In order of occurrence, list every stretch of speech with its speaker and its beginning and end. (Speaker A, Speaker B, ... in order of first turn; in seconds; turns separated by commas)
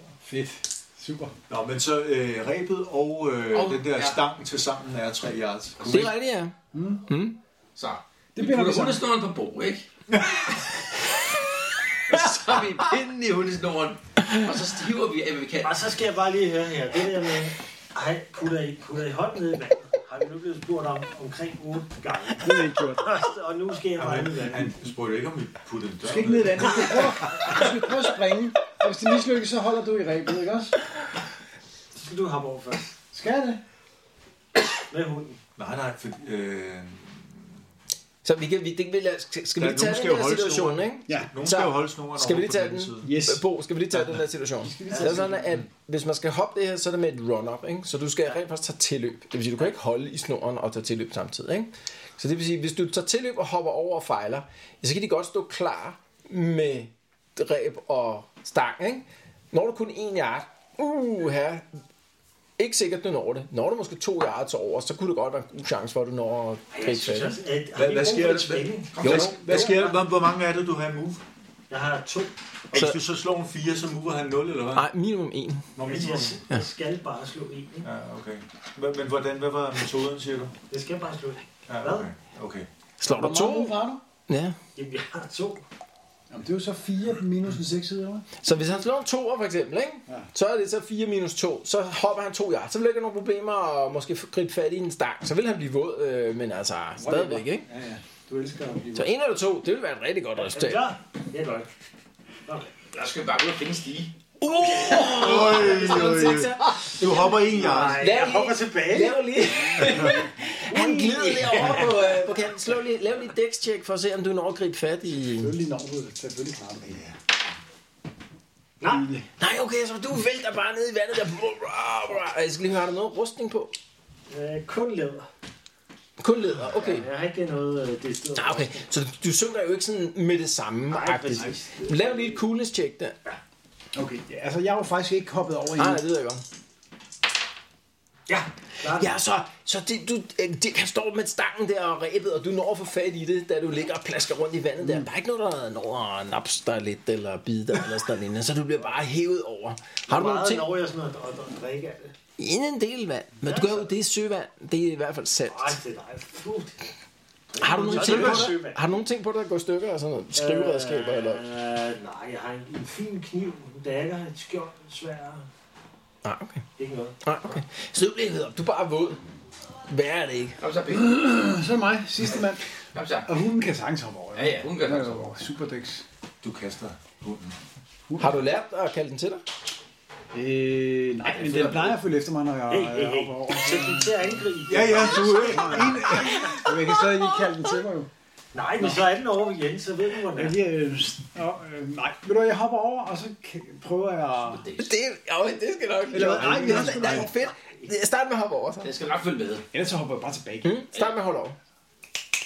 Speaker A: 0.2-1.4, Speaker B: 1.5-6.2, Speaker C: 3.5-4.2, Speaker D: 5.8-7.4, Speaker A: 6.7-7.0, Speaker C: 7.8-9.8, Speaker A: 8.4-9.0, Speaker C: 12.1-15.8, Speaker E: 15.6-24.9, Speaker A: 22.4-23.1, Speaker B: 24.0-27.1, Speaker A: 26.0-30.8, Speaker E: 31.9-33.0, Speaker A: 33.1-33.6, Speaker E: 34.9-35.4, Speaker B: 35.6-37.5, Speaker D: 38.2-61.7, Speaker B: 39.6-43.1, Speaker A: 41.1-41.4, Speaker A: 43.0-43.4, Speaker B: 43.9-44.2, Speaker A: 44.6-45.6, Speaker E: 44.9-45.4, Speaker D: 62.6-67.4, Speaker E: 66.7-69.0, Speaker B: 67.8-71.2, Speaker C: 69.0-69.4, Speaker A: 69.0-69.6, Speaker E: 71.7-72.3, Speaker B: 72.7-74.9, Speaker D: 72.7-73.0, Speaker D: 74.7-75.7, Speaker B: 75.8-76.4, Speaker E: 75.8-77.9, Speaker B: 77.8-80.6, Speaker E: 80.7-82.1, Speaker B: 81.7-82.7, Speaker D: 83.0-84.6, Speaker A: 83.1-84.0, Speaker E: 84.8-85.6, Speaker A: 86.3-88.3, Speaker D: 88.4-97.7, Speaker A: 97.0-99.1, Speaker E: 98.3-98.8, Speaker D: 98.9-100.8, Speaker E: 100.4-101.7, Speaker E: 102.5-102.7, Speaker C: 102.9-104.1, Speaker D: 104.4-106.9, Speaker E: 104.9-106.3, Speaker B: 105.0-108.1, Speaker E: 107.2-109.3, Speaker D: 107.8-115.5, Speaker A: 109.8-110.1, Speaker A: 110.7-112.1, Speaker E: 111.6-111.8, Speaker A: 115.4-117.0, Speaker E: 118.8-119.2, Speaker A: 118.9-119.3, Speaker D: 119.4-123.7, Speaker E: 124.3-125.3, Speaker D: 126.2-127.1, Speaker E: 126.8-128.9, Speaker D: 128.4-133.2, Speaker E: 130.9-132.4, Speaker A: 133.9-136.0, Speaker D: 135.8-136.4, Speaker E: 138.3-139.2, Speaker D: 138.9-150.7, Speaker A: 144.8-145.1, Speaker E: 150.1-152.2, Speaker D: 152.4-155.8, Speaker E: 153.4-153.9, Speaker E: 155.5-156.9, Speaker E: 157.5-158.9, Speaker D: 157.6-161.4, Speaker B: 157.7-158.5, Speaker A: 158.1-158.4, Speaker E: 160.4-165.5, Speaker D: 166.2-166.7, Speaker E: 166.8-167.2, Speaker D: 167.2-169.2, Speaker D: 169.9-170.6, Speaker C: 170.6-171.3, Speaker A: 170.9-172.6, Speaker C: 172.9-173.3, Speaker A: 173.3-176.1, Speaker C: 174.3-175.4, Speaker B: 176.4-177.6, Speaker A: 178.1-178.4, Speaker D: 178.2-179.4, Speaker A: 180.3-188.1, Speaker C: 181.2-182.0, Speaker E: 182.7-186.5, Speaker B: 184.7-186.1, Speaker D: 186.2-187.6, Speaker E: 188.5-190.6, Speaker A: 190.3-194.7, Speaker C: 194.5-194.9, Speaker D: 194.8-198.9, Speaker A: 196.1-197.3, Speaker E: 196.4-197.9, Speaker C: 198.8-199.7, Speaker A: 199.7-200.7, Speaker D: 200.6-201.6